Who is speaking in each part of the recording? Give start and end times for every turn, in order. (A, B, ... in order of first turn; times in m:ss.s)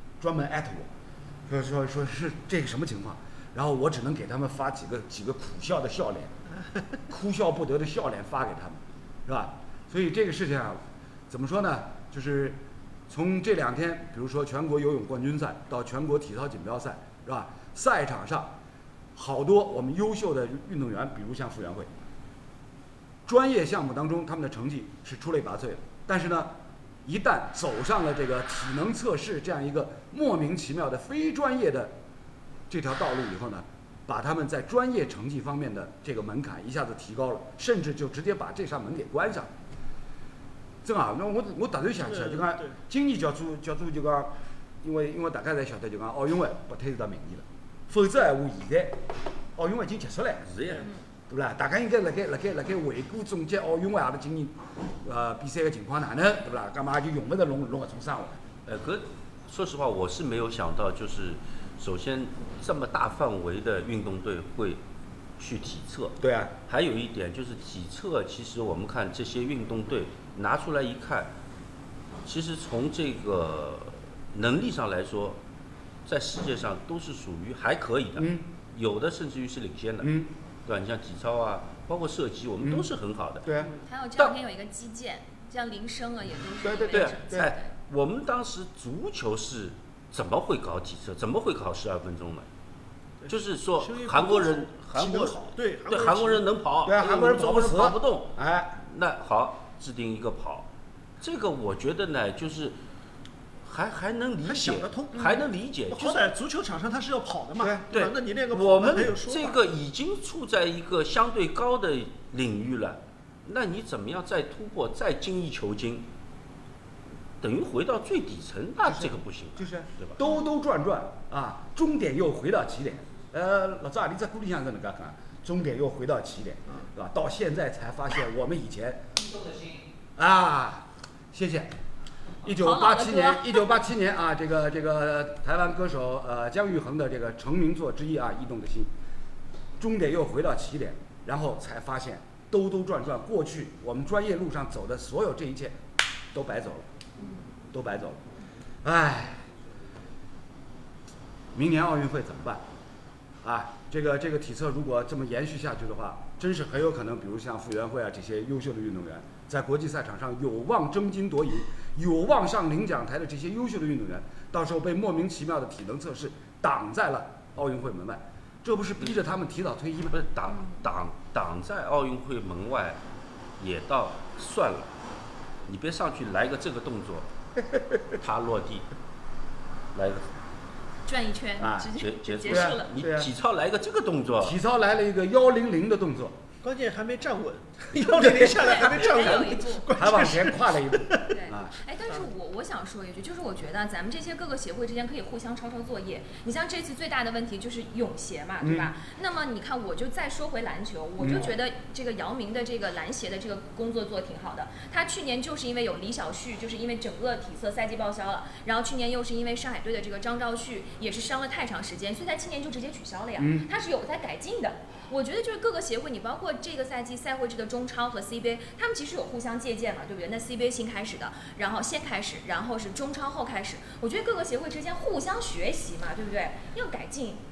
0:00.2-0:00.9 A
0:01.5-0:06.3 A
0:07.1-0:18.6 A
0:19.1-0:21.9 A
0:23.2-0:26.5 A
0:27.0-0:31.9 A
0:32.7-0:39.5 A
0:40.8-0:49.0 A
0:42.0-0:42.8 B
0:49.6-0:50.5 A
0:50.5-0:50.9 C
0:51.3-0:58.4 A
0:58.6-1:04.8 C
1:05.4-1:11.3 C
1:06.2-1:06.5 A
1:12.2-1:15.4 C
1:16.0-1:23.5 C
1:18.2-1:18.5 A
1:20.0-1:20.3 A
1:22.6-1:22.9 A
1:23.4-1:23.7 A
1:23.8-1:27.7 D
1:26.6-1:27.5 A
1:26.9-1:32.4 C
1:33.2-1:36.4 B
1:33.3-1:40.7 C
1:36.8-1:38.8 A
1:41.2-1:42.8 C
1:43.6-1:46.3 C
1:44.4-1:49.6 B
1:47.9-1:56.1 C
1:57.4-2:00.2 C
1:58.8-2:09.1 A
2:10.2-2:11.7 A
2:12.4-2:18.9 A
2:12.5-2:13.7 D
2:19.8-2:25.8 A
2:26.3-2:26.8 A
2:27.7-2:28.2 A
2:28.8-2:29.5 A
2:31.5-2:32.6 A
2:33.4-2:50.2 A
2:50.1-2:53.0 C
2:53.6-2:55.0 C
2:55.7-2:57.3 C
2:57.7-2:58.0 A
2:58.2-2:58.9 C
2:59.9-3:00.2 C
3:01.0-3:02.9 D
3:01.6-3:01.9 A
3:02.0-3:04.6 C
3:02.5-3:03.3 A
3:04.4-3:06.4 A
3:06.6-3:11.3 B
3:08.0-3:08.9 A
3:08.6-3:09.9 D
3:09.9-3:11.7 A
3:11.3-3:47.4 D
3:18.6-3:18.9 A
3:21.2-3:21.5 A
3:33.4-3:33.7 A